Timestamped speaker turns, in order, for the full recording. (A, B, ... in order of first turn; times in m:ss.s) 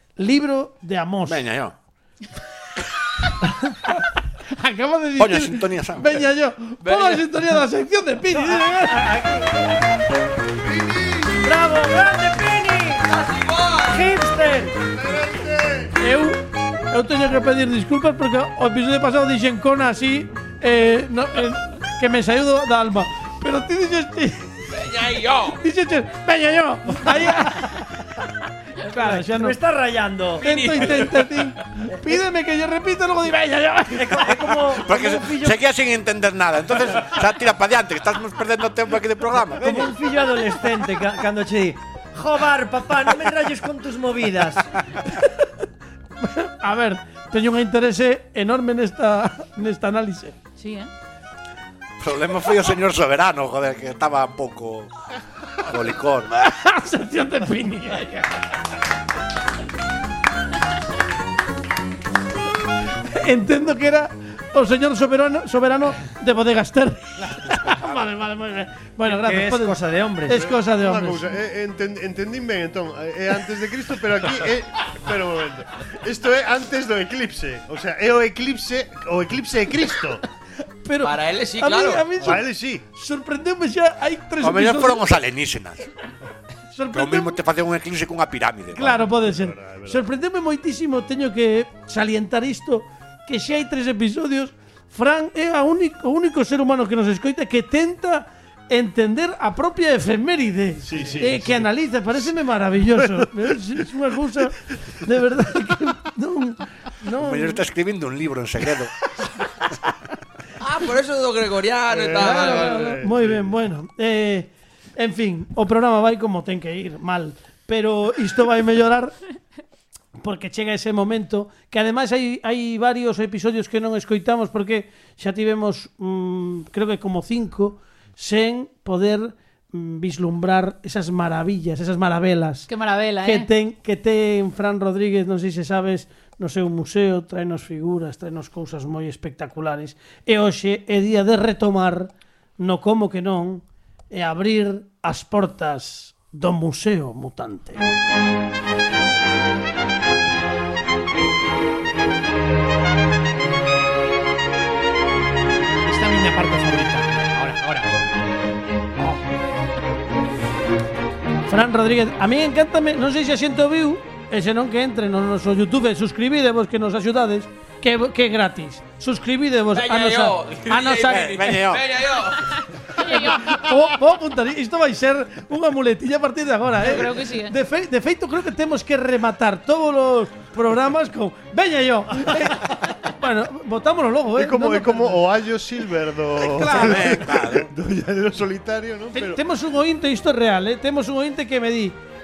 0:00.2-0:01.5 A
0:01.2-0:01.7 B
0:03.9-0:09.0 A
0:05.2-0:06.2 B
0:06.8-0:07.2 C
0:08.3-0:10.0 D
0:10.6-0:11.4 E
0:11.3-0:13.2 D
0:13.0-0:14.0 C
0:13.8-0:14.8 D
0:14.9-0:15.9 E
0:16.0-0:24.6 A
0:24.7-0:25.6 C
0:25.5-0:28.0 A
0:28.8-0:29.6 A
0:28.9-0:30.5 D
0:30.4-0:31.5 C
0:30.4-0:34.3 A
0:33.9-0:35.6 D
0:34.7-0:39.9 B
0:39.6-0:44.7 D
0:46.2-0:50.4 A
0:50.6-0:50.9 F
0:52.0-0:54.9 B
0:55.6-0:56.3 B
0:56.3-0:58.3 A
1:03.0-1:11.2 A
1:09.0-1:10.5 D
1:10.3-1:20.2 E
1:20.8-1:25.0 A
1:21.0-1:22.1 C
1:22.2-1:22.8 E
1:24.4-1:25.9 B
1:26.7-1:27.4 A
1:26.9-1:29.0 B
1:28.7-1:47.6 A
1:28.8-1:30.1 E
1:40.9-1:41.7 E
1:42.9-1:43.5 E
1:47.1-1:48.9 B
1:50.6-1:53.0 C
1:51.9-1:53.6 E
1:52.2-1:59.2 A
2:00.2-2:12.7 A
2:12.7-2:13.5 F
2:13.2-2:27.8 A
2:35.8-2:38.0 G
2:41.5-2:51.6 A
2:49.7-2:52.6 C
2:51.1-2:51.8 B
2:52.5-2:53.6 F
2:53.0-3:05.2 A
2:56.8-2:57.5 F
3:04.4-3:09.4 E
3:06.4-3:07.3 A
3:06.6-3:07.7 B
3:09.1-3:12.0 A